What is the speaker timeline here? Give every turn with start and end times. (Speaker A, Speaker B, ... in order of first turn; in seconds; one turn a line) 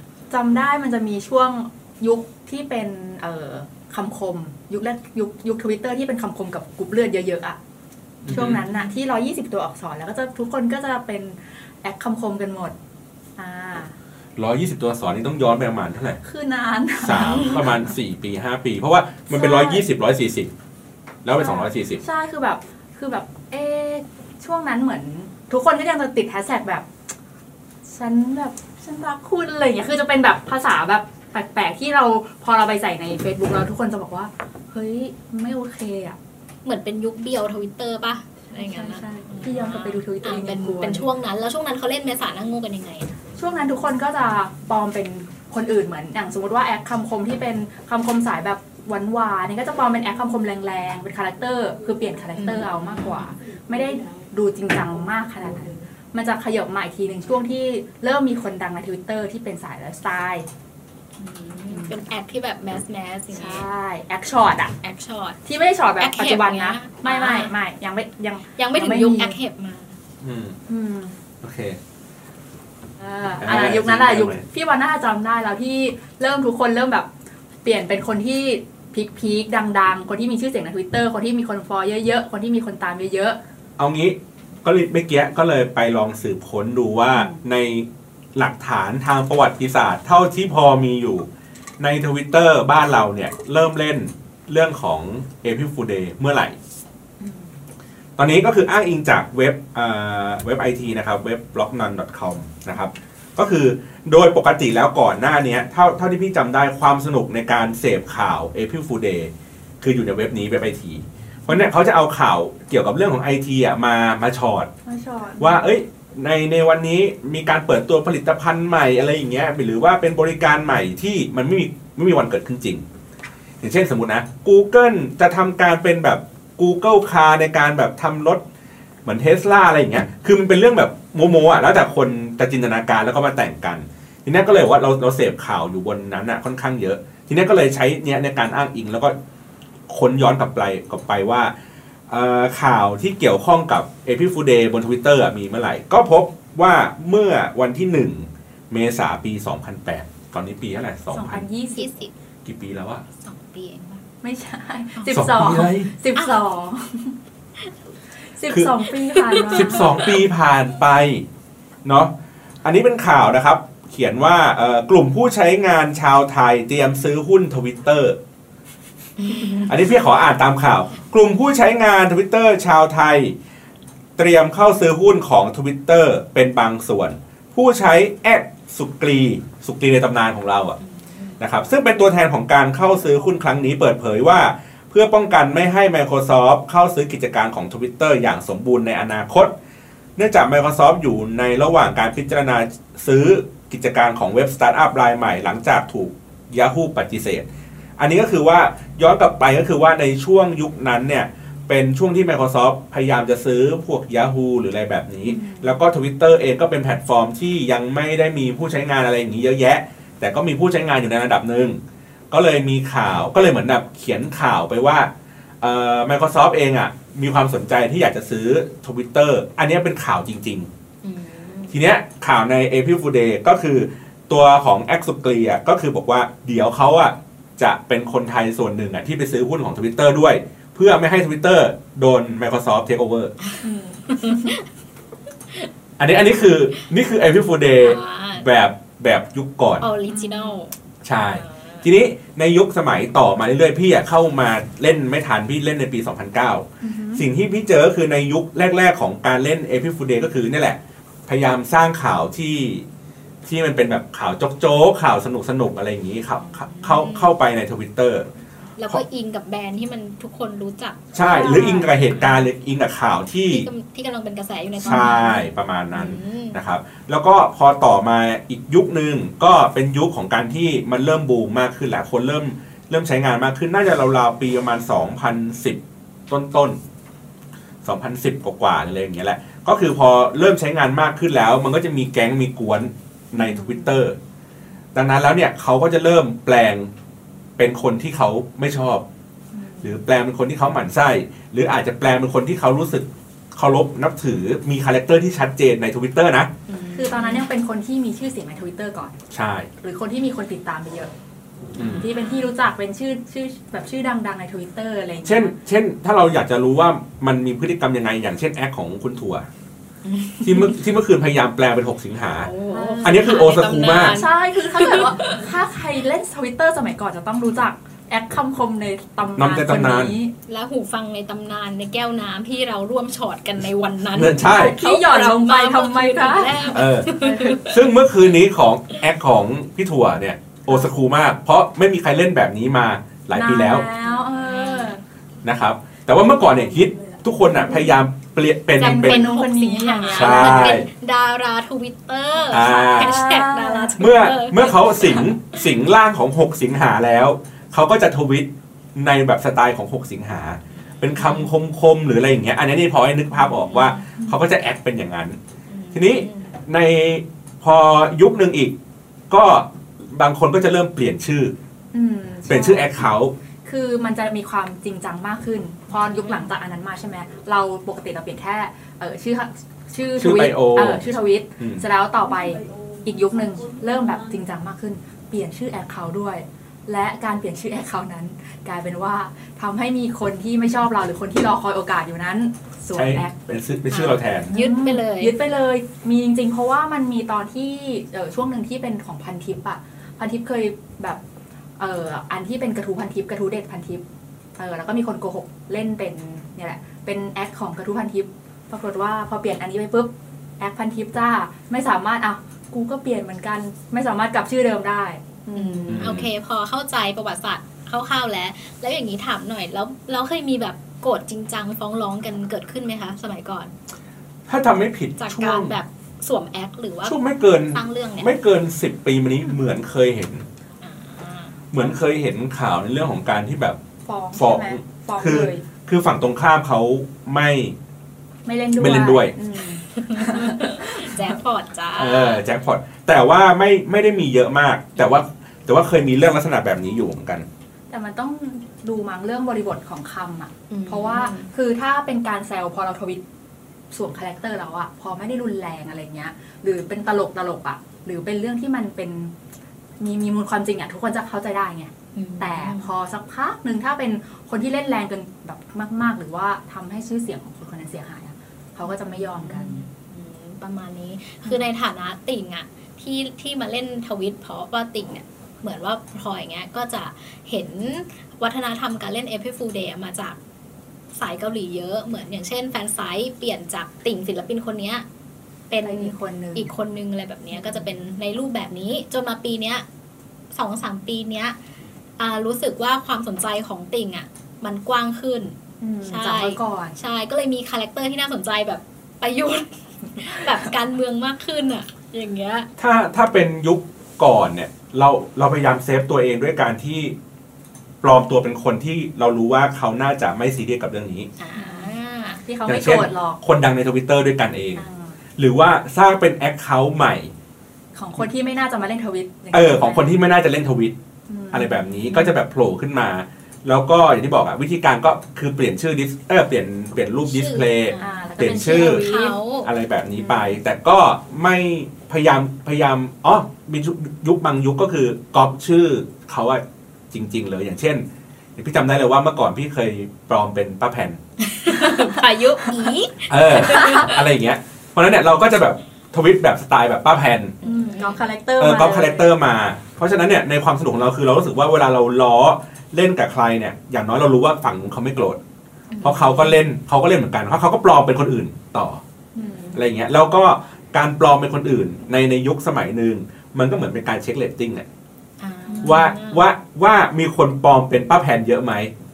Speaker A: 0.3-7.6
Speaker B: 8.2-8.6
Speaker A: 8.3-12.8
Speaker A: 13.4-13.9
Speaker B: 14.4-16.2
Speaker A: 16.2-17.7
Speaker B: 17.0-20.5
Speaker A: 19.3-19.8
Speaker B: 21.2-22.0
Speaker A: 21.4-26.9
Speaker A: 27.9-36.2
Speaker C: 36.6-43.1
Speaker A: 38.5-41.1
Speaker A: 43.4-60.5
Speaker C: 52.3-53.3
Speaker C: 61.2-63.6
Speaker A: 61.7-62.0
Speaker A: 63.3-64.7
Speaker C: 64.8-65.4
Speaker A: 65.4-69.4
Speaker C: 66.0-67.5
Speaker C: 68.6-69.9
Speaker B: 70.2-70.6
Speaker A: 70.7-71.1
Speaker B: 71.4-71.8
Speaker A: 73.0-77.1
Speaker B: 73.4-74.5
Speaker A: 77.6-83.4
Speaker B: 83.8-91.3
Speaker A: 87.1-87.4
Speaker B: 91.8-96.5
Speaker A: 97.2-97.5
Speaker B: 98.2-114.7
Speaker A: 114.8-115.7
Speaker B: 115.4-122.8
Speaker B: 123.6-128.4
Speaker B: 129.0-139.1
Speaker B: 139.9-141.5
Speaker B: 142.1-151.4
Speaker A: 151.1-151.9
Speaker C: 151.8-152.1
Speaker B: 152.4-153.0
Speaker C: 153.2-154.0
Speaker A: 154.2-157.2
Speaker C: 155.0-155.2
Speaker B: 155.1-155.9
Speaker A: 158.4-160.1
Speaker C: 158.9-160.2
Speaker B: 159.5-161.2
Speaker B: 161.8-168.2
Speaker C: 169.2-169.7
Speaker B: 169.6-173.3
Speaker B: 174.2-180.8
Speaker C: 180.8-181.4
Speaker B: 181.4-189.5
Speaker B: 190.2-197.4
Speaker B: 198.0-211.8
Speaker A: 205.2-205.8
Speaker B: 212.3-215.1
Speaker B: 215.6-220.7
Speaker C: 221.0-221.8
Speaker B: 221.7-233.3
Speaker A: 233.6-234.5
Speaker C: 234.1-234.6
Speaker B: 236.0-239.8
Speaker C: 237.8-238.5
Speaker C: 239.8-240.7
Speaker A: 240.1-240.6
Speaker B: 241.0-252.8
Speaker C: 241.2-241.8
Speaker A: 246.8-247.2
Speaker B: 253.4-258.3
Speaker C: 256.4-257.3
Speaker C: 258.8-262.4
Speaker B: 261.1-263.7
Speaker A: 261.3-261.9
Speaker C: 263.5-266.6
Speaker B: 264.8-276.8
Speaker A: 264.8-265.3
Speaker B: 277.8-284.1
Speaker A: 283.4-283.9
Speaker B: 284.9-286.9
Speaker B: 287.6-289.0
Speaker A: 289.5-290.0
Speaker B: 289.8-296.5
Speaker C: 296.7-297.4
Speaker A: 296.9-299.2
Speaker B: 299.3-299.7
Speaker A: 299.8-301.1
Speaker B: 301.8-302.1
Speaker C: 301.8-302.5
Speaker A: 301.9-305.5
Speaker B: 305.2-309.4
Speaker C: 310.0-310.8
Speaker B: 310.4-312.5
Speaker C: 312.4-315.5
Speaker A: 312.7-313.2
Speaker B: 313.0-314.2
Speaker A: 314.0-320.3
Speaker B: 319.4-320.1
Speaker C: 320.5-327.9
Speaker B: 324.1-324.8
Speaker A: 324.4-327.7
Speaker B: 326.7-327.1
Speaker B: 327.6-333.9
Speaker A: 333.3-335.0
Speaker C: 334.0-335.0
Speaker B: 335.4-339.2
Speaker A: 336.9-337.8
Speaker A: 338.8-340.8
Speaker C: 338.8-345.6
Speaker B: 340.1-340.9
Speaker B: 342.5-343.2
Speaker A: 342.9-344.0
Speaker B: 344.0-355.4
Speaker C: 351.1-351.5
Speaker C: 353.3-354.0
Speaker C: 355.7-356.5
Speaker B: 355.9-358.8
Speaker B: 359.3-361.5
Speaker A: 361.9-362.9
Speaker B: 362.5-363.3
Speaker A: 363.6-383.4
Speaker C: 366.1-366.4
Speaker B: 370.2-371.8
Speaker B: 382.9-384.5
Speaker C: 383.9-385.4
Speaker A: 384.5-391.2
Speaker A: 391.8-394.0
Speaker A: 394.6-406.1
Speaker C: 405.5-413.7
Speaker B: 405.9-406.3
Speaker B: 414.5-415.7
Speaker C: 415.2-417.2
Speaker B: 417.0-420.4
Speaker C: 417.7-418.3
Speaker C: 420.8-421.6
Speaker B: 421.7-423.8
Speaker A: 424.0-425.6
Speaker B: 424.3-427.7
Speaker A: 428.4-431.3
Speaker B: 428.8-429.3
Speaker C: 429.9-432.5
Speaker B: 431.9-437.4
Speaker A: 437.9-443.2
Speaker C: 440.7-441.5
Speaker A: 443.9-449.3
Speaker A: 450.0-459.9
Speaker C: 452.1-452.9
Speaker C: 459.3-470.4
Speaker C: 471.1-475.0
Speaker C: 475.7-479.8
Speaker A: 475.8-476.7
Speaker A: 477.5-477.9
Speaker C: 480.5-481.6
Speaker C: 482.2-492.7
Speaker A: 485.8-487.0
Speaker B: 492.8-497.1
Speaker B: 498.0-501.3
Speaker C: 501.4-502.4
Speaker A: 501.6-503.4
Speaker B: 502.6-504.8
Speaker A: 504.8-505.2
Speaker B: 505.4-507.3
Speaker A: 507.9-510.1
Speaker B: 509.5-510.9
Speaker A: 511.3-512.3
Speaker B: 511.5-519.1
Speaker C: 517.3-519.7
Speaker A: 518.0-519.4
Speaker B: 519.6-531.2
Speaker A: 520.2-520.6
Speaker C: 531.4-534.2
Speaker B: 533.3-537.5
Speaker A: 533.7-534.0
Speaker C: 537.6-538.2
Speaker A: 537.6-539.3
Speaker B: 538.6-545.4
Speaker A: 545.9-546.4
Speaker B: 546.0-549.0
Speaker C: 546.1-546.5
Speaker A: 549.3-549.8
Speaker B: 549.7-554.9
Speaker C: 555.4-556.4
Speaker A: 555.7-556.1
Speaker B: 555.8-558.9